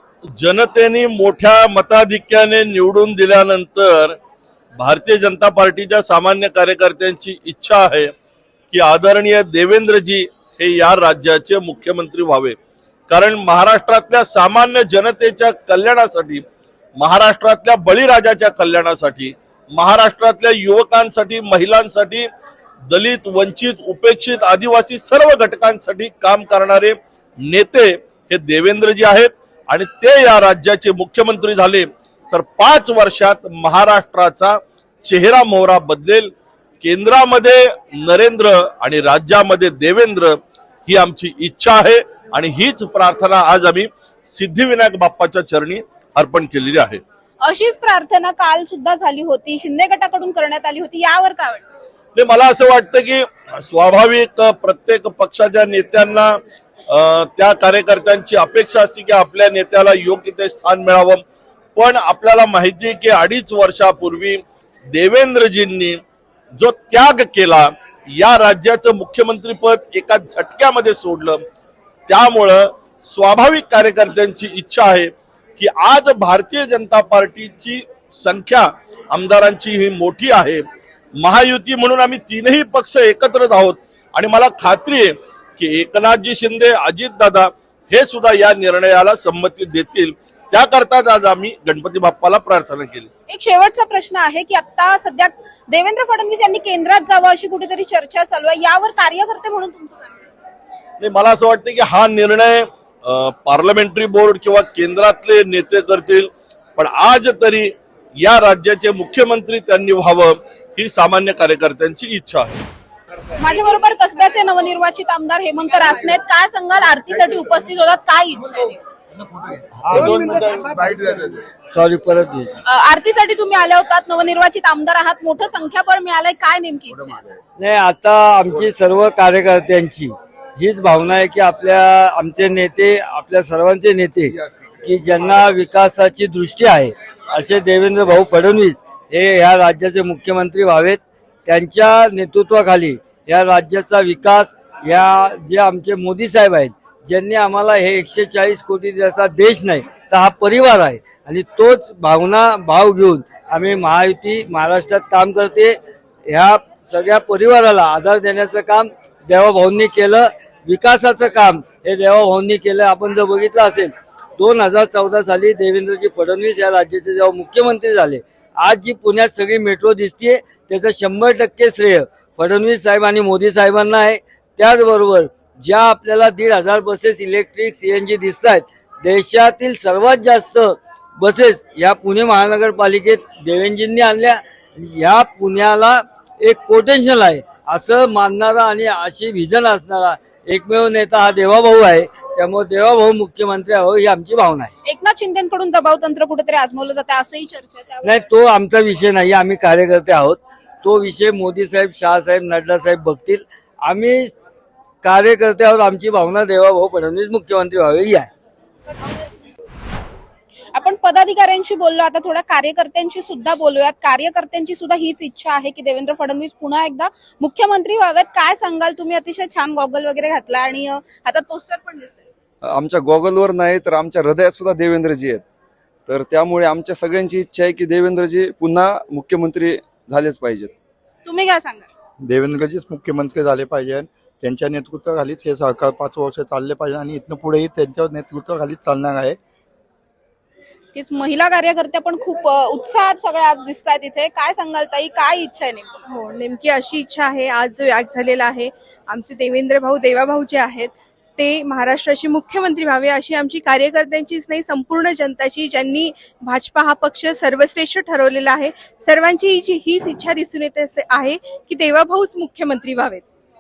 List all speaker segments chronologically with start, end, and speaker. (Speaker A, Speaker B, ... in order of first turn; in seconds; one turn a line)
Speaker A: 0.4-4.2
Speaker A: 4.8-8.1
Speaker A: 8.7-12.6
Speaker A: 13.1-16.4
Speaker A: 17.0-22.3
Speaker A: 22.9-36.3
Speaker A: 36.8-40.4
Speaker A: 40.9-47.0
Speaker B: 47.4-51.6
Speaker A: 52.1-56.4
Speaker A: 56.9-61.2
Speaker A: 61.8-64.4
Speaker A: 64.9-66.0
Speaker A: 66.6-71.4
Speaker A: 72.1-80.6
Speaker A: 81.2-93.1
Speaker B: 93.3-100.3
Speaker A: 101.0-112.6
Speaker B: 113.4-118.8
Speaker C: 119.8-122.5
Speaker B: 122.7-127.2
Speaker C: 127.6-194.7
Speaker B: 194.8-198.1
Speaker C: 198.0-204.4
Speaker C: 205.0-208.3
Speaker B: 210.7-222.3
Speaker D: 222.7-225.4
Speaker D: 226.1-230.7
Speaker B: 231.2-231.9
Speaker E: 232.2-239.4
Speaker B: 240.9-245.9
Speaker F: 246.1-263.2